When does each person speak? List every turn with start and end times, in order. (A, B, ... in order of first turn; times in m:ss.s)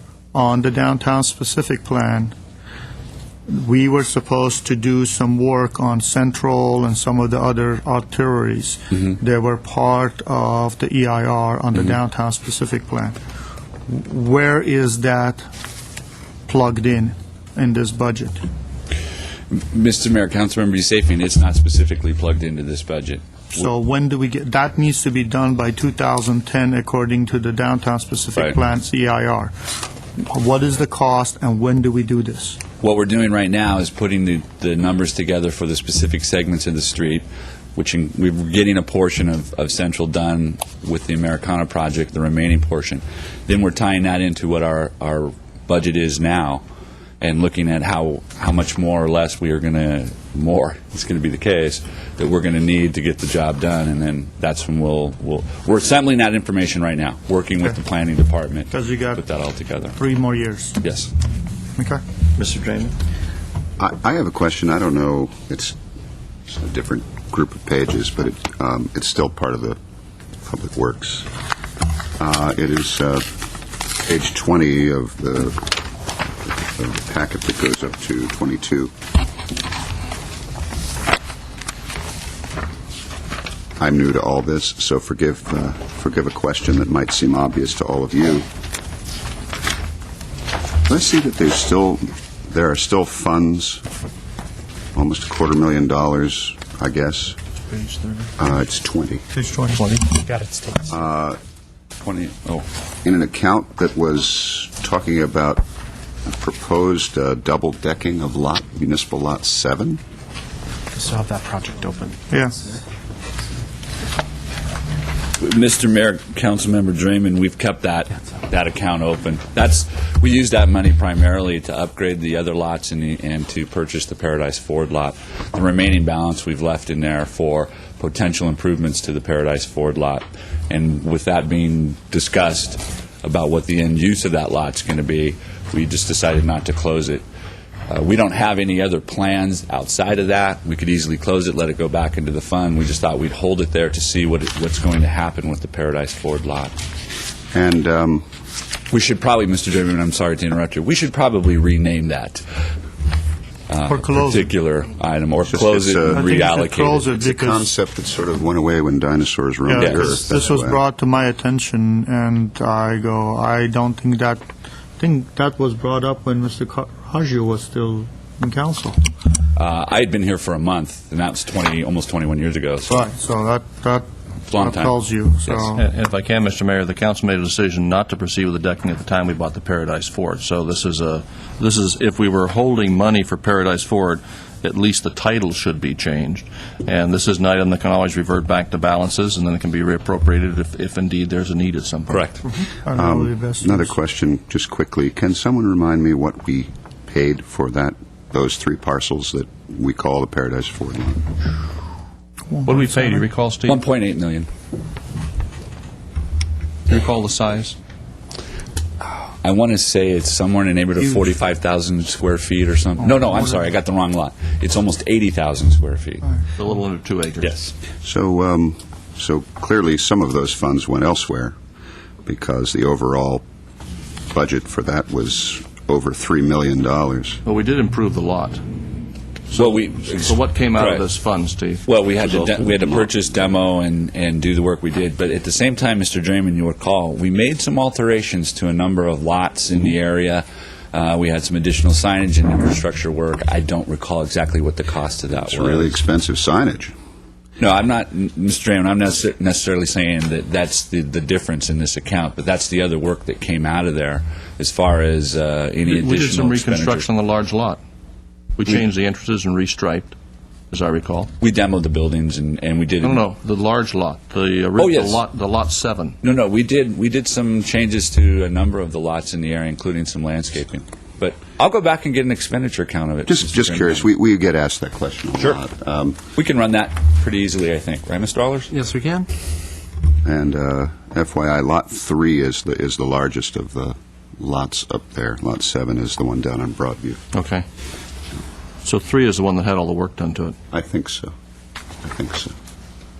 0:00.3-0:02.3 A
0:03.5-0:13.2 A
0:13.9-0:15.5 A
0:16.5-0:18.4 A
0:19.5-0:23.7 B
0:23.5-0:32.6 A
0:32.8-0:46.6 B
0:47.2-1:00.0 B
0:58.7-0:59.2 A
1:00.0-1:00.8 A
1:00.8-1:01.1 B
1:01.8-1:02.0 A
1:02.4-1:02.9 C
1:03.8-1:05.7 D
1:06.5-1:09.8 D
1:10.4-1:11.3 D
1:12.2-1:13.3 D
1:14.0-1:15.8 D
1:16.5-1:18.9 D
1:23.8-1:28.5 D
1:30.8-1:33.8 D
1:34.9-1:37.4 D
1:37.8-1:38.3 E
1:38.4-1:39.2 D
1:39.3-1:39.8 A
1:39.7-1:40.2 C
1:40.2-1:40.8 E
1:40.9-1:41.4 D
1:42.0-1:42.6 B
1:43.0-1:45.6 D
1:46.2-1:50.0 D
1:51.0-1:52.2 E
1:52.3-1:52.6 A
1:55.4-2:17.2 B
2:17.9-2:26.7 B
2:27.5-2:28.2 D
2:28.9-2:32.4 B
2:33.7-2:37.1 B
2:33.9-2:34.5 A
2:35.5-2:36.3 D
2:36.1-2:37.7 A
2:37.1-2:40.8 D
2:39.7-2:44.4 A
2:39.8-2:40.3 B
2:45.0-2:49.0 A
2:49.6-2:53.0 B
2:52.9-2:55.9 A
2:54.5-2:54.9 B
2:55.6-3:12.3 C
3:12.1-3:12.4 B
3:12.6-3:13.9 A
3:12.9-3:21.3 D
3:22.5-3:23.2 A
3:22.6-3:23.8 C
3:23.6-3:24.5 B
3:26.9-3:27.8 C
3:29.4-3:36.3 B
3:36.5-3:37.6 C
3:37.4-3:37.7 B
3:38.0-3:41.6 D
3:42.2-3:43.4 D
3:44.3-3:47.4 D
3:47.4-3:48.6 C
3:49.5-3:51.8 C
3:49.5-3:51.0 B
3:51.8-4:06.0 B
3:52.2-3:53.1 D
4:05.3-4:06.9 D
4:07.6-4:17.1 B
4:15.8-4:17.8 C
4:18.6-4:20.2 C
4:20.7-4:21.3 C
4:21.4-4:23.3 B
4:23.0-4:26.2 C
4:24.8-4:25.2 B
4:26.2-4:34.1 B
4:33.2-4:36.2 D
4:36.3-4:38.8 B
4:38.9-4:39.2 E
4:40.2-4:47.2 D
4:47.3-4:47.6 C
4:48.8-4:50.6 C
4:50.7-4:51.3 D
4:52.0-4:52.5 D